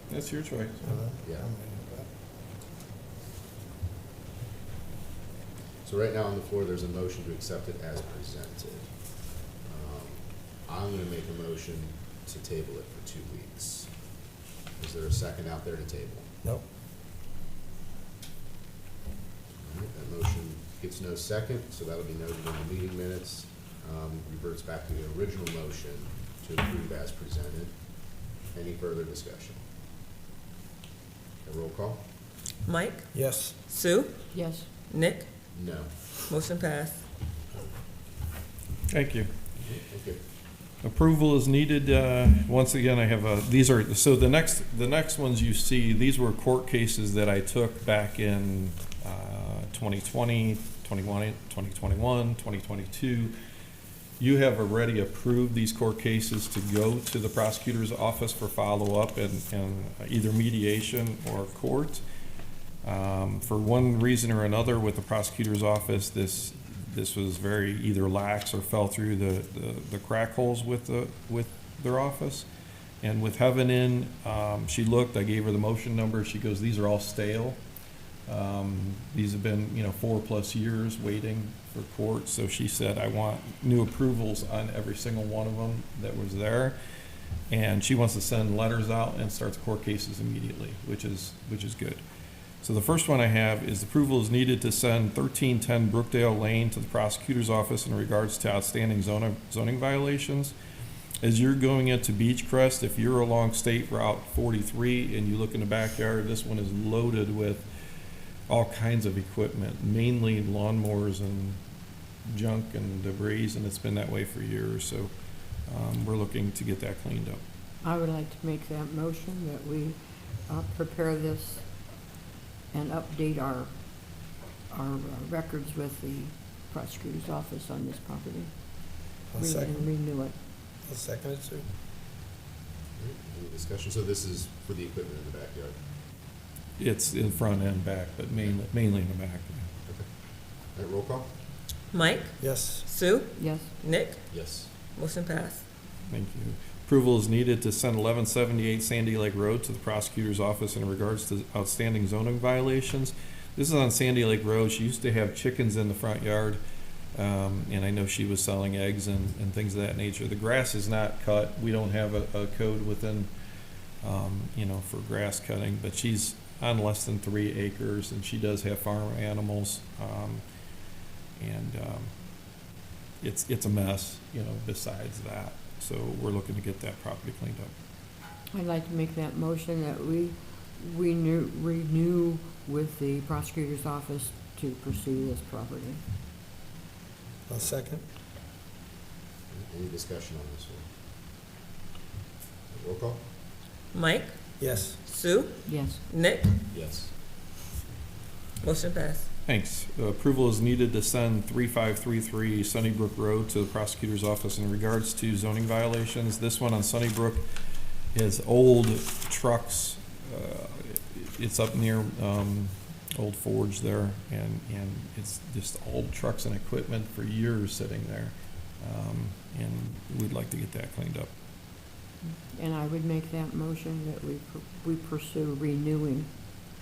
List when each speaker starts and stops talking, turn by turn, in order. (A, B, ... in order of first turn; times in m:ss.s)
0:00.1-0:00.8 A
0:00.8-0:02.1 B
0:01.2-0:01.5 C
0:05.8-0:08.9 C
0:09.6-0:13.9 C
0:14.8-0:16.3 C
0:19.6-0:27.7 C
0:28.5-0:29.6 C
0:31.4-0:32.0 C
0:32.6-0:33.0 D
0:33.1-0:33.5 B
0:33.7-0:34.1 D
0:34.3-0:34.7 E
0:34.9-0:35.3 D
0:35.5-0:35.9 C
0:36.3-0:37.0 D
0:38.9-0:39.3 A
0:39.6-0:40.2 C
0:40.8-0:53.4 A
0:54.2-1:02.0 A
1:02.8-1:12.5 A
1:13.0-1:17.6 A
1:18.3-1:26.8 A
1:27.5-1:32.0 A
1:32.6-1:40.5 A
1:41.2-1:47.7 A
1:48.5-1:51.6 A
1:52.2-1:55.1 A
1:55.7-1:57.4 A
1:57.8-2:01.6 E
2:02.7-2:03.7 E
2:04.7-2:08.5 E
2:09.3-2:09.9 B
2:09.4-2:10.3 E
2:10.8-2:11.6 B
2:13.0-2:15.8 C
2:16.8-2:19.7 A
2:20.7-2:21.3 C
2:21.9-2:23.3 D
2:22.4-2:22.8 B
2:23.4-2:23.7 E
2:23.8-2:24.2 D
2:24.3-2:24.7 C
2:25.0-2:25.6 D
2:26.1-2:36.6 A
2:37.1-2:43.3 A
2:44.0-2:50.4 A
2:51.4-2:52.1 A
2:53.2-2:57.7 A
2:58.5-3:06.0 E
3:07.5-3:08.0 B
3:09.5-3:10.8 C
3:12.7-3:13.2 C
3:13.9-3:14.3 D
3:14.6-3:15.0 B
3:15.0-3:16.5 D
3:15.6-3:16.0 E
3:16.7-3:17.1 C
3:18.6-3:19.2 D
3:19.4-3:27.5 A
3:28.1-3:41.3 A
3:42.5-3:46.3 E